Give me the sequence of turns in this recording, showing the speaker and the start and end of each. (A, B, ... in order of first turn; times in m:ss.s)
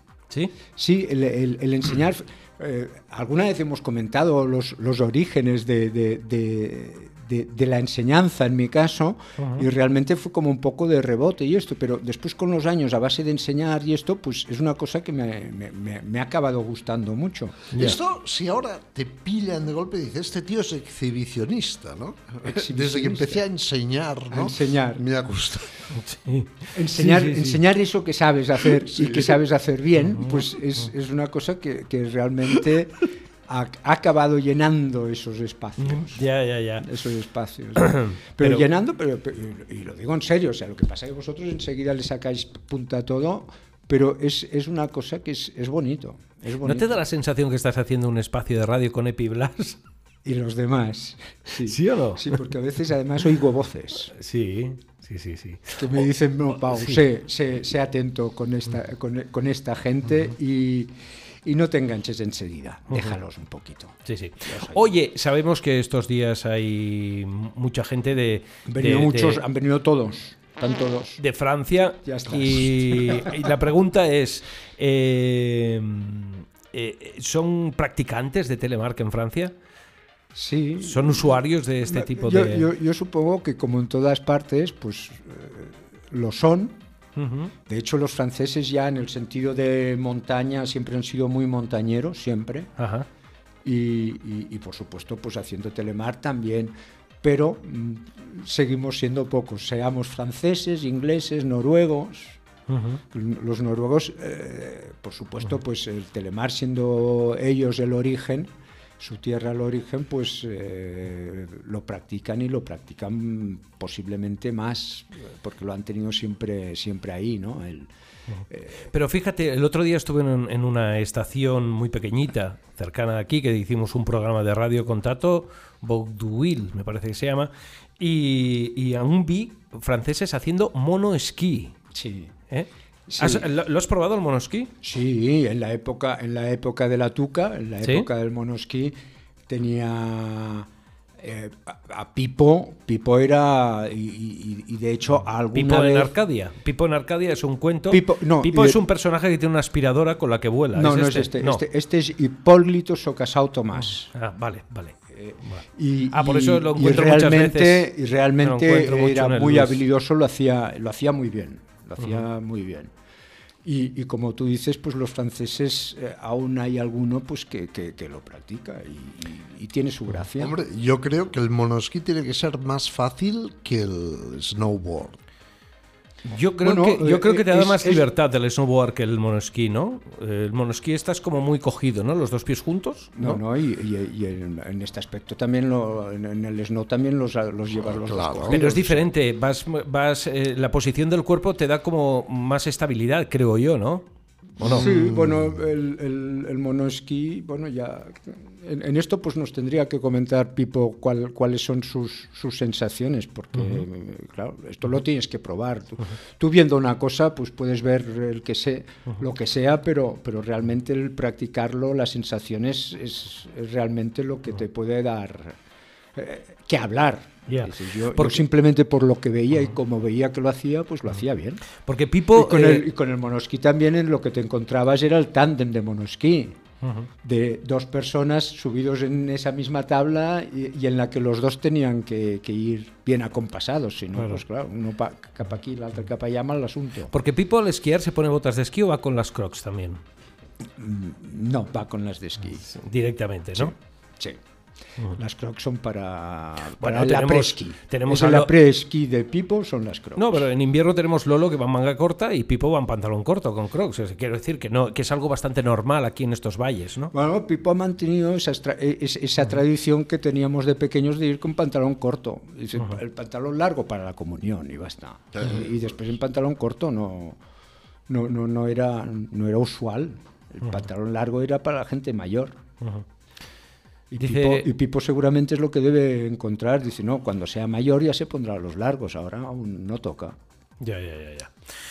0:00.8-0:17.7 A
0:09.4-0:09.7 B
0:17.7-0:18.0 B
0:17.7-0:25.8 C
0:22.4-0:23.4 A
0:24.3-0:25.0 A
0:25.9-0:27.6 B
0:26.7-0:36.3 A
0:28.8-0:29.4 C
0:30.1-0:30.5 B
0:35.8-0:36.9 B
0:36.8-0:47.0 A
0:37.8-0:38.6 B
0:46.6-0:49.8 B
0:50.2-0:54.1 A
0:51.6-0:52.4 B
0:54.1-0:56.1 B
0:55.8-1:00.9 A
0:56.7-0:57.0 B
1:01.4-1:04.9 A
1:02.9-1:03.2 B
1:04.0-1:09.4 B
1:08.7-1:11.2 A
1:11.2-1:19.5 B
1:12.0-1:13.5 A
1:20.3-1:26.8 A
1:20.8-1:22.7 B
1:27.2-1:27.5 B
1:27.7-1:32.7 A
1:32.8-1:33.1 B
1:33.6-1:42.4 A
1:42.7-1:43.0 B
1:43.1-1:57.9 A
1:58.5-1:58.9 A
1:58.9-2:11.7 B
2:11.9-2:12.3 A
2:12.5-2:14.7 B
2:13.1-2:13.5 A
2:14.8-2:18.9 A
2:17.8-2:18.1 B
2:19.5-2:20.7 A
2:21.2-2:26.1 A
2:25.5-2:31.6 B
2:27.9-2:28.8 A
2:30.7-2:34.1 A
2:33.8-2:37.9 B
2:35.2-2:42.9 A
2:38.4-2:39.8 B
2:42.0-2:42.2 B
2:43.6-2:50.5 A
2:50.4-2:55.2 C
2:56.3-3:03.4 B
2:56.6-2:58.1 A
3:03.2-3:09.1 A
3:07.8-3:08.6 C
3:08.5-3:14.1 B
3:14.6-3:14.9 B
3:14.6-3:15.6 C
3:14.6-3:35.6 A
3:23.5-3:23.8 B
3:36.2-3:41.6 A
3:37.5-3:38.5 B
3:41.8-3:42.9 B
3:42.3-3:46.6 A
3:46.8-3:47.1 B
3:47.2-3:57.1 A
3:54.2-3:54.4 B
3:57.1-4:00.0 B
4:00.8-4:02.7 A
4:02.7-4:03.7 B
4:03.5-4:04.4 A
4:05.1-4:10.5 A
4:06.8-4:08.5 B
4:10.2-4:17.1 B
4:17.1-4:27.4 A
4:25.4-4:25.7 C
4:28.1-4:32.5 A
4:34.1-4:40.4 A
4:34.1-4:34.7 B
4:40.8-4:41.5 B